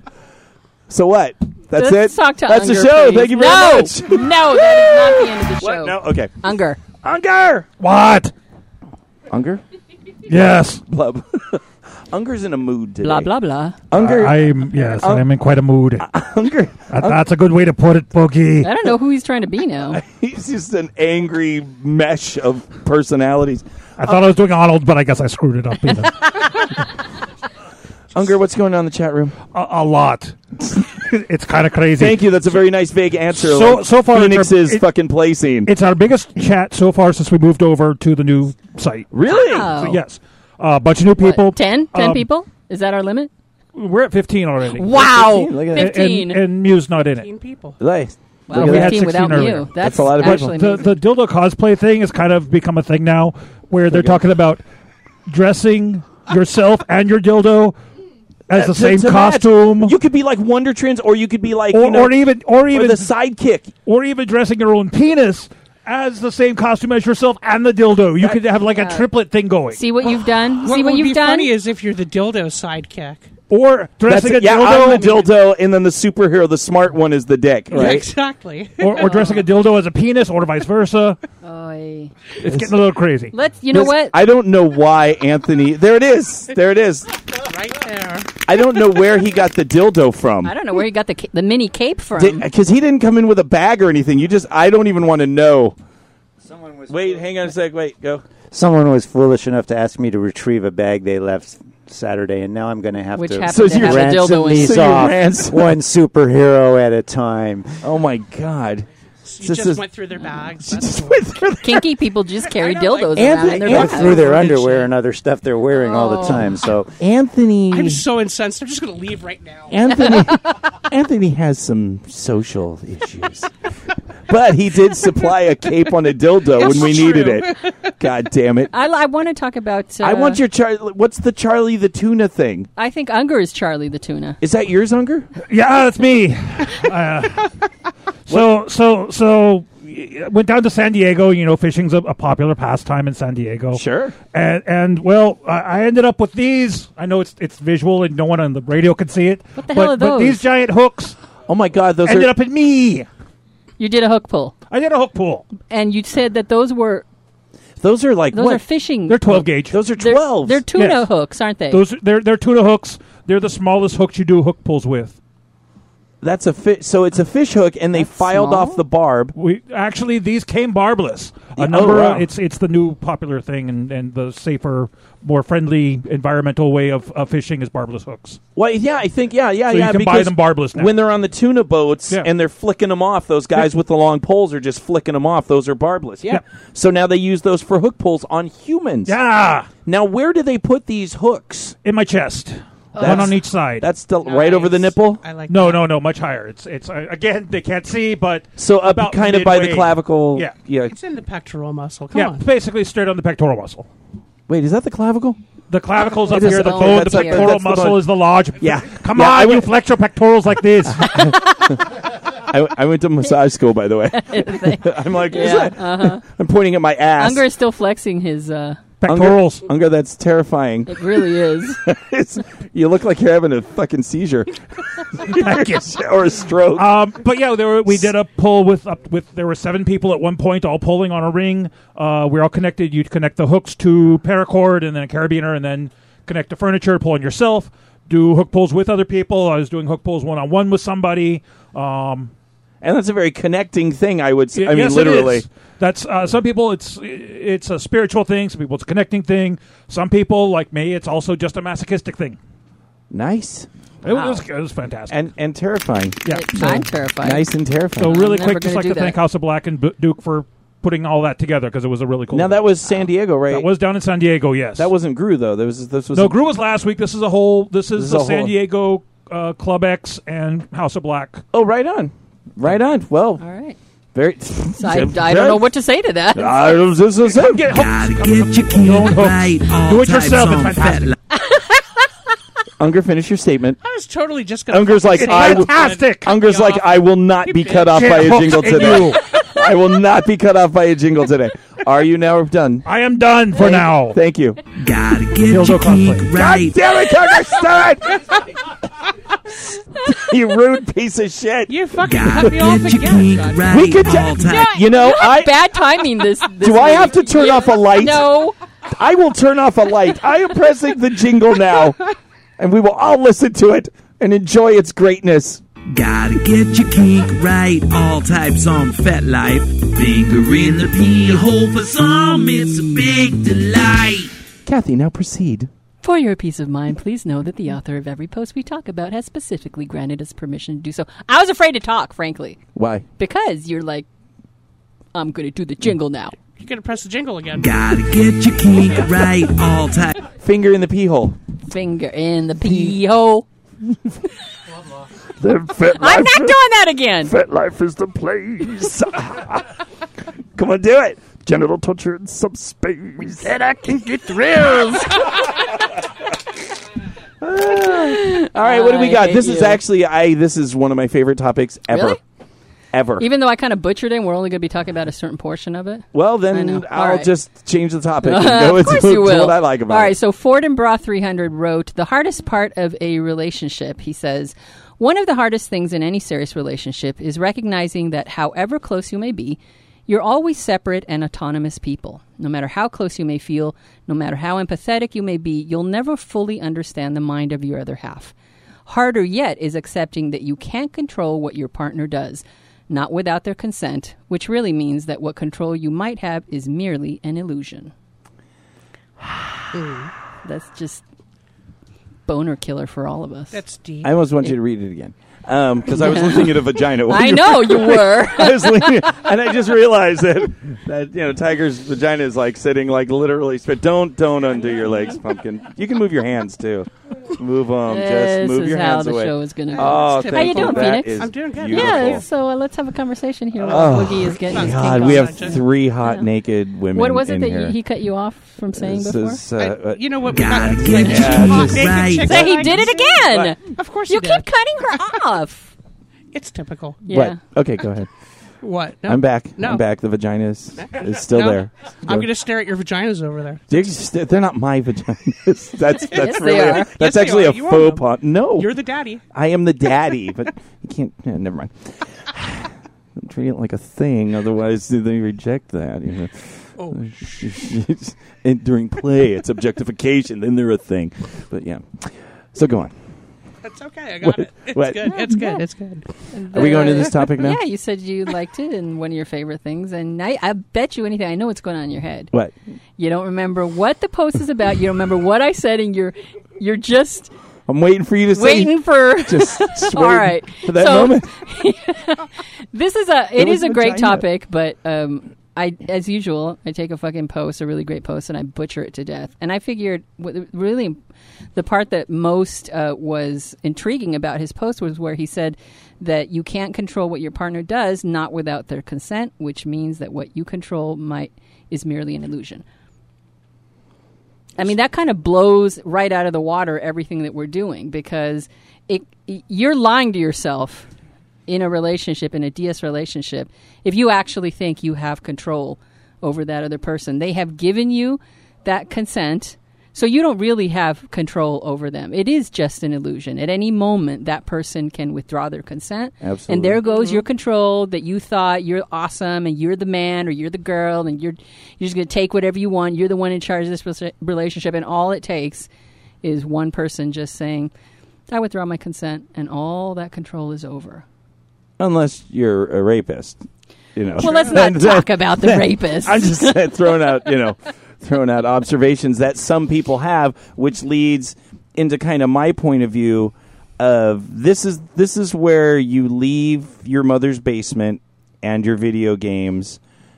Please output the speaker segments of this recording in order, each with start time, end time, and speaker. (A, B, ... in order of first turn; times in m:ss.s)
0:00.9-0:06.4 A
0:01.8-0:06.8 B
0:07.0-0:07.7 A
0:07.8-0:08.3 C
0:09.3-0:09.6 A
0:10.3-0:10.8 C
0:10.3-0:13.3 A
0:13.0-0:13.8 B
0:13.9-0:15.3 A
0:13.9-0:16.1 C
0:16.0-0:17.2 A
0:16.9-0:18.7 C
0:18.6-0:20.0 B
0:19.9-0:23.6 A
0:24.0-0:26.8 C
0:28.2-0:29.4 A
0:29.5-0:32.2 C
0:32.0-0:35.7 A
0:33.3-0:34.8 C
0:35.7-0:39.1 C
0:39.1-0:39.7 A
0:39.3-0:40.0 B
0:39.7-0:42.2 C
0:41.2-0:43.3 B
0:43.7-0:44.9 C
0:44.7-0:46.4 B
0:44.9-0:45.9 A
0:45.7-0:47.3 C
0:47.1-0:47.8 D
0:47.8-0:50.5 A
0:48.5-0:50.9 B
0:48.5-0:54.6 C
0:53.9-0:54.2 A
0:55.3-0:57.8 C
0:58.5-1:00.0 C
0:58.5-1:02.2 A
1:01.7-1:03.1 C
1:02.7-1:03.7 A
1:03.8-1:09.8 C
1:08.8-1:09.1 B
1:09.7-1:11.5 B
1:10.0-1:13.3 D
1:13.5-1:15.2 C
1:14.1-1:18.1 A
1:14.7-1:15.3 D
1:17.7-1:19.4 D
1:18.8-1:21.2 C
1:19.0-1:19.4 B
1:21.4-1:22.1 B
1:22.4-1:23.3 C
1:23.3-1:24.2 B
1:23.7-1:27.1 A
1:27.4-1:28.3 D
1:28.4-1:30.5 A
1:30.4-1:32.5 B
1:32.2-1:35.8 A
1:36.4-1:37.3 E
1:36.9-1:38.2 A
1:38.5-1:47.8 E
1:43.2-1:45.1 B
1:43.5-1:45.8 A
1:47.8-1:48.9 A
1:49.2-1:51.3 D
1:49.4-1:49.8 A
1:50.6-1:51.9 A
1:51.6-1:54.3 B
1:52.4-1:54.9 D
1:53.2-1:54.8 A
1:53.7-1:56.9 E
1:55.8-1:56.6 B
1:57.0-1:58.0 A
1:57.7-2:00.1 D
1:59.7-2:03.5 A
2:04.3-2:08.7 A
2:06.4-2:07.7 D
2:08.7-2:10.4 B
2:10.0-2:12.7 A
2:12.8-2:14.4 B
2:14.4-2:15.3 A
2:15.4-2:17.6 C
2:18.3-2:31.2 C
2:23.7-2:24.2 A
2:29.6-2:30.4 B
2:31.5-2:32.3 A
2:32.0-2:33.1 C
2:33.8-2:34.6 B
2:34.7-2:35.5 C
2:35.7-2:37.0 B
2:37.8-2:38.6 A
2:38.3-2:39.4 B
2:39.1-2:39.8 C
2:39.3-2:40.6 A
2:40.0-2:41.8 B
2:40.8-2:41.1 C
2:41.7-2:45.2 C
2:46.2-2:49.4 A
2:48.0-2:48.8 B
2:49.4-2:58.4 C
2:51.6-2:52.3 A
2:58.6-3:09.2 A
2:59.7-3:00.9 C
3:09.1-3:09.7 C
3:09.9-3:11.8 A
3:11.8-3:13.9 C
3:13.0-3:13.3 B
3:13.0-3:15.2 A
3:14.2-3:15.9 D
3:15.5-3:20.6 C
3:18.6-3:21.0 A
3:20.9-3:22.5 D
3:22.1-3:23.9 C
3:24.5-3:25.4 A
3:25.7-3:31.4 C
3:26.3-3:29.7 A
3:26.3-3:27.6 B
3:30.9-3:37.4 A
3:34.1-3:36.2 B
3:37.2-3:38.8 B
3:39.0-3:39.7 C
3:39.1-3:41.3 A
3:40.9-3:41.8 B
3:41.8-3:47.0 A
3:45.2-3:45.9 C
3:46.8-4:02.3 C
4:02.8-4:05.5 A
4:04.6-4:12.4 C
4:13.1-4:13.7 A
4:14.0-4:15.2 C
4:14.1-4:14.4 B
4:15.1-4:18.2 A
4:16.2-4:16.9 C
4:16.3-4:17.5 B
4:18.0-4:24.9 C
4:18.0-4:19.2 B
4:22.3-4:23.7 A
4:24.8-4:26.4 A
4:26.1-4:31.4 C
4:28.0-4:28.6 A
4:31.5-4:33.4 A
4:33.4-4:33.8 B
4:34.2-4:35.7 A
4:34.8-4:36.7 B
4:36.4-4:37.8 A
4:37.2-4:41.2 C
4:37.7-4:41.1 F
4:38.7-4:39.2 A
4:41.3-4:41.8 B
4:42.8-4:43.8 A
4:43.8-4:48.5 D
4:44.7-4:52.9 A
4:45.1-4:46.4 C
4:47.9-4:49.3 C
4:52.8-4:54.2 C
4:53.6-4:54.7 A
4:54.8-4:56.9 F
4:55.4-4:56.4 C
4:56.1-4:58.4 A
5:00.0-5:02.8 A
5:01.7-5:04.7 D
5:02.0-5:04.7 F
5:03.6-5:05.7 A
5:04.5-5:08.6 B
5:06.6-5:08.3 A
5:09.0-5:12.0 A
5:12.6-5:15.7 A
5:15.9-5:24.3 F
5:16.8-5:17.2 A
5:18.1-5:18.9 A
5:19.9-5:21.3 A
5:24.6-5:25.7 A
5:26.0-5:32.6 B
5:32.8-5:33.0 A
5:33.2-5:34.1 B
5:35.1-5:36.4 B
5:36.6-5:37.8 D
5:37.6-5:40.2 F
5:40.2-5:41.4 A
5:41.7-5:43.4 B
5:42.6-5:43.0 A
5:45.4-5:46.6 A
5:46.0-5:47.3 B
5:47.3-5:49.7 A
5:50.6-5:55.2 A
5:54.6-5:55.4 B
5:57.4-6:02.2 A
5:57.9-5:59.8 B
6:01.9-6:02.2 B
6:02.9-6:03.3 A
6:03.2-6:07.3 B
6:06.1-6:10.1 A
6:08.2-6:28.3 B
6:28.9-6:37.9 B
6:39.7-6:40.1 D
6:40.4-6:41.0 B
6:42.3-6:43.6 B
6:43.5-6:44.1 D
6:44.0-7:02.2 A
6:45.9-6:49.1 B
6:57.9-7:06.3 B
6:59.7-7:02.2 D
7:03.6-7:07.8 A
7:03.7-7:05.6 D
7:06.9-7:09.4 B
7:08.8-7:12.7 A
7:09.6-7:15.0 D
7:10.3-7:12.4 F
7:12.2-7:15.7 B
7:16.3-7:17.0 D
7:17.1-7:17.4 B
7:17.1-7:18.1 A
7:18.6-7:19.8 D
7:19.1-7:22.3 A
7:20.8-7:23.7 D
7:23.7-7:28.7 A
7:26.1-7:26.9 B
7:26.2-7:29.2 D
7:29.3-7:42.9 A
7:36.8-7:37.2 D
7:43.6-7:46.9 D
7:44.2-7:45.2 A
7:45.1-7:45.6 B
7:46.3-7:52.3 B
7:46.5-7:47.6 A
7:53.0-7:57.3 B
7:57.7-8:01.4 A
7:58.4-8:11.0 B
8:03.4-8:04.2 A
8:11.6-8:22.6 B
8:24.6-8:30.9 B
8:31.5-8:55.7 B
8:46.2-8:46.8 A
8:46.9-8:47.2 D
8:56.2-8:57.7 B
8:58.3-9:01.0 B
9:01.8-9:03.4 A
9:04.0-9:19.8 A
9:04.2-9:07.1 B
9:04.3-9:04.6 D